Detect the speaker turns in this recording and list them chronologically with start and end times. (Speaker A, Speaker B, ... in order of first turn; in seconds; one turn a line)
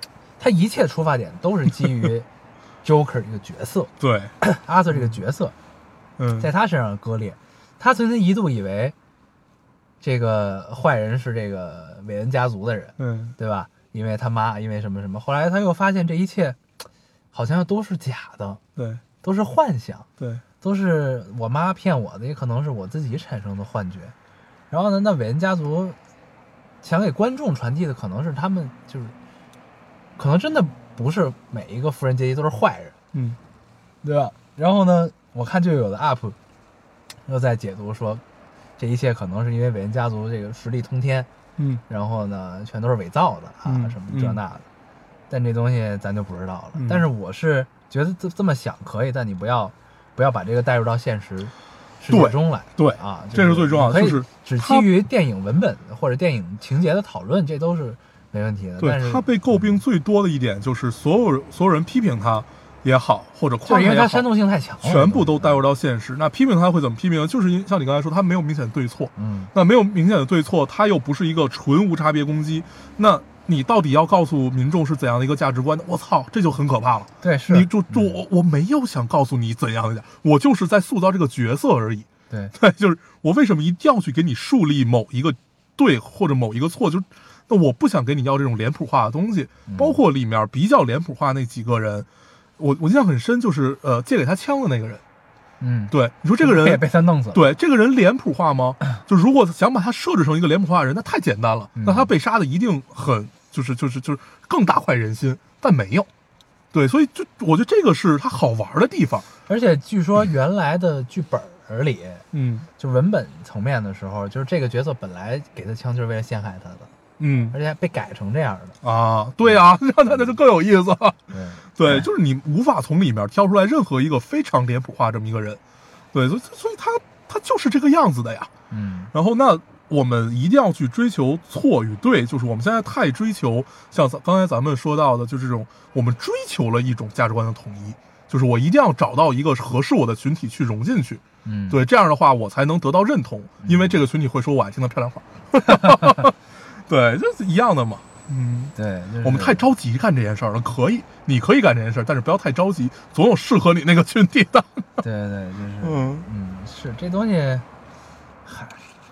Speaker A: 0.4-2.3
Speaker A: 2.8-5.5
Speaker B: 4.0-4.3
Speaker B: 6.2-6.5
Speaker A: 6.4-8.9
Speaker A: 10.0-16.6
Speaker B: 13.0-13.3
Speaker A: 17.3-18.6
Speaker B: 18.8-19.0
Speaker A: 19.2-20.1
Speaker A: 20.6-24.1
Speaker A: 24.7-26.0
Speaker A: 26.8-29.1
Speaker A: 30.2-32.9
Speaker A: 34.0-36.4
Speaker A: 37.3-38.2
Speaker A: 38.8-41.3
Speaker B: 41.6-41.8
Speaker A: 41.9-44.6
Speaker B: 43.6-44.4
Speaker A: 45.3-59.6
Speaker B: 46.7-47.0
Speaker B: 52.1-54.9
Speaker B: 58.8-64.3
Speaker A: 63.6-65.6
Speaker B: 64.8-92.1
Speaker A: 69.2-69.5
Speaker A: 77.2-78.2
Speaker A: 89.7-90.0
Speaker B: 92.6-95.0
Speaker A: 95.6-97.4
Speaker B: 95.9-106.1
Speaker A: 101.8-102.1
Speaker B: 106.7-109.3
Speaker A: 109.5-112.2
Speaker B: 112.3-112.7
Speaker A: 112.8-116.9
Speaker B: 117.2-117.5
Speaker A: 117.5-118.8
Speaker B: 118.8-121.2
Speaker A: 121.3-122.0
Speaker B: 121.8-125.6
Speaker B: 126.1-128.5
Speaker A: 128.7-129.1
Speaker B: 129.1-146.3
Speaker A: 141.4-141.8
Speaker A: 143.6-143.9
Speaker A: 145.7-146.2
Speaker B: 146.9-155.0
Speaker A: 148.7-149.7
Speaker A: 155.0-157.7
Speaker B: 155.8-156.3
Speaker A: 158.4-158.8